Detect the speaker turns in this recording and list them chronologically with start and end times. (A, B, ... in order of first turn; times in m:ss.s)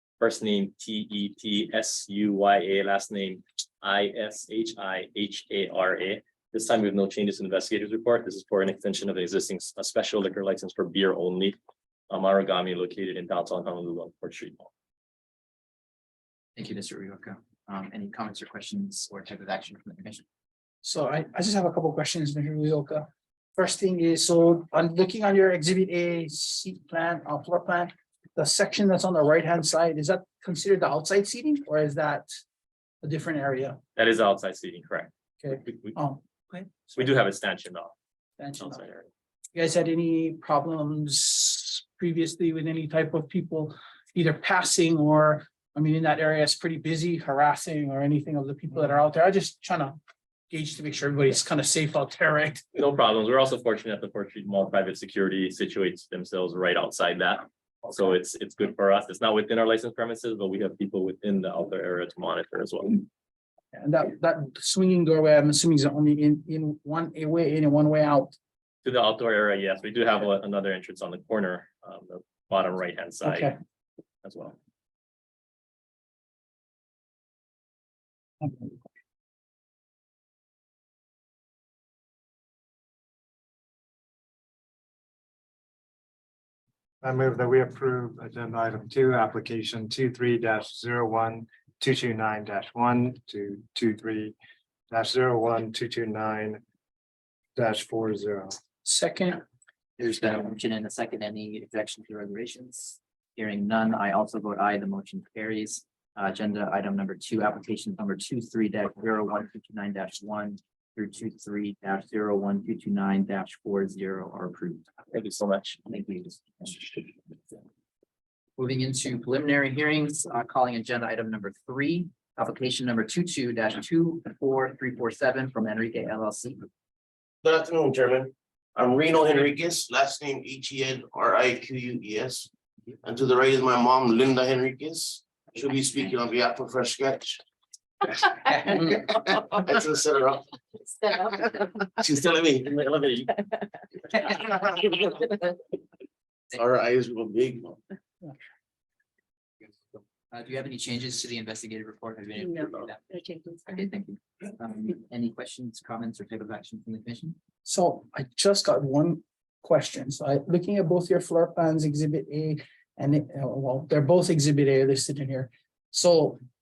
0:00.2-0:11.6 A
0:12.1-0:14.7 A
0:16.6-0:20.2 B
0:20.8-0:32.3 C
0:33.0-0:33.8 C
0:34.0-0:36.0 A
0:35.4-0:37.1 C
0:37.0-0:37.9 A
0:38.4-0:38.8 C
0:38.6-0:39.1 A
0:39.6-0:50.0 C
0:50.5-0:52.6 C
0:52.8-1:03.0 A
1:03.7-1:08.4 C
1:08.8-1:13.6 A
1:13.2-1:13.5 C
1:14.2-1:14.6 A
1:27.0-1:34.4 D
1:34.9-1:36.6 D
1:37.6-1:38.6 D
1:38.8-1:39.4 C
1:40.0-1:54.9 B
1:55.1-1:55.8 A
1:55.9-1:57.2 B
1:58.6-2:06.7 B
2:07.4-2:12.5 E
2:13.0-2:17.4 E
2:18.8-2:21.0 E
2:22.0-2:23.3 E
2:24.1-2:25.3 E
2:26.5-2:27.8 E
2:29.6-2:37.4 B
2:37.6-2:46.4 C